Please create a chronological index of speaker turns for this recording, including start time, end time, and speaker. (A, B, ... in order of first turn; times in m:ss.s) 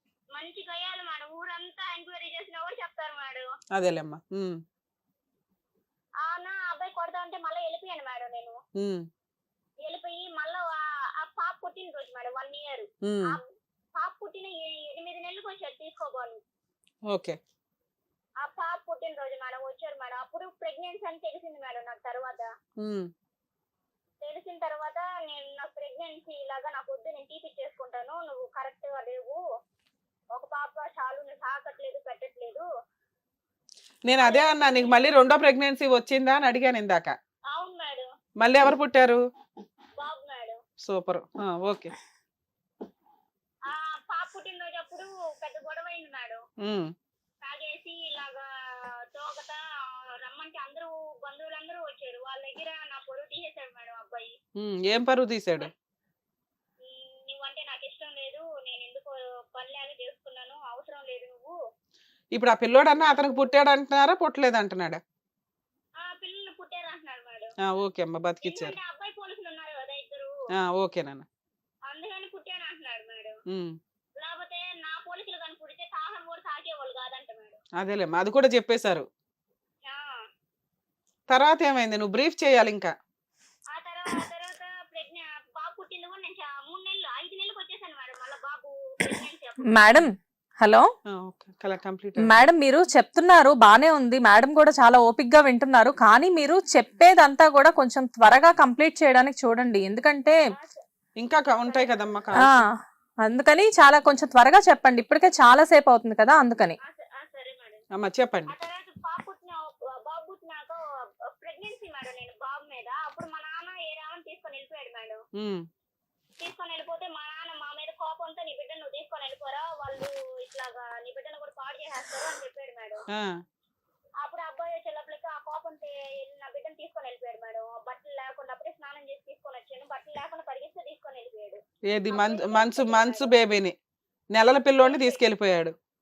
0:00.3-0:03.5 A
0:03.7-0:04.6 B
0:06.2-0:08.6 A
0:08.8-0:09.0 B
0:09.8-0:16.4 A
0:13.0-0:13.4 B
0:17.1-0:17.4 B
0:18.4-0:22.5 A
0:22.8-0:23.1 B
0:24.2-0:29.4 A
0:30.3-0:32.6 A
0:34.0-0:37.2 B
0:34.2-0:35.0 A
0:37.5-0:38.1 A
0:38.4-0:39.2 B
0:40.0-0:40.6 A
0:40.8-0:41.9 B
0:43.7-0:46.4 A
0:46.6-0:46.9 B
0:47.4-0:48.4 A
0:49.1-0:49.6 A
0:50.2-0:54.3 A
0:54.6-0:55.7 B
0:56.8-1:01.5 A
1:02.4-1:05.0 B
1:03.0-1:03.5 A
1:06.0-1:07.5 A
1:07.6-1:08.7 B
1:08.4-1:10.3 A
1:10.6-1:11.2 B
1:11.9-1:13.4 A
1:14.2-1:17.6 A
1:17.8-1:19.0 B
1:19.9-1:20.1 A
1:21.3-1:22.9 B
1:23.7-1:30.0 A
1:29.7-1:30.8 C
1:31.1-1:32.5 B
1:32.2-1:40.4 C
1:40.3-1:40.8 A
1:41.2-1:42.6 B
1:41.6-1:42.0 A
1:42.4-1:42.7 C
1:43.2-1:46.8 C
1:46.8-1:47.8 A
1:47.9-1:48.5 B
1:48.5-1:50.8 A
1:51.3-1:55.2 A
1:55.4-1:55.6 B
1:56.4-2:03.0 A
2:04.2-2:13.3 A
2:11.9-2:13.7 B
2:14.3-2:15.7 B
2:14.8-2:15.2 A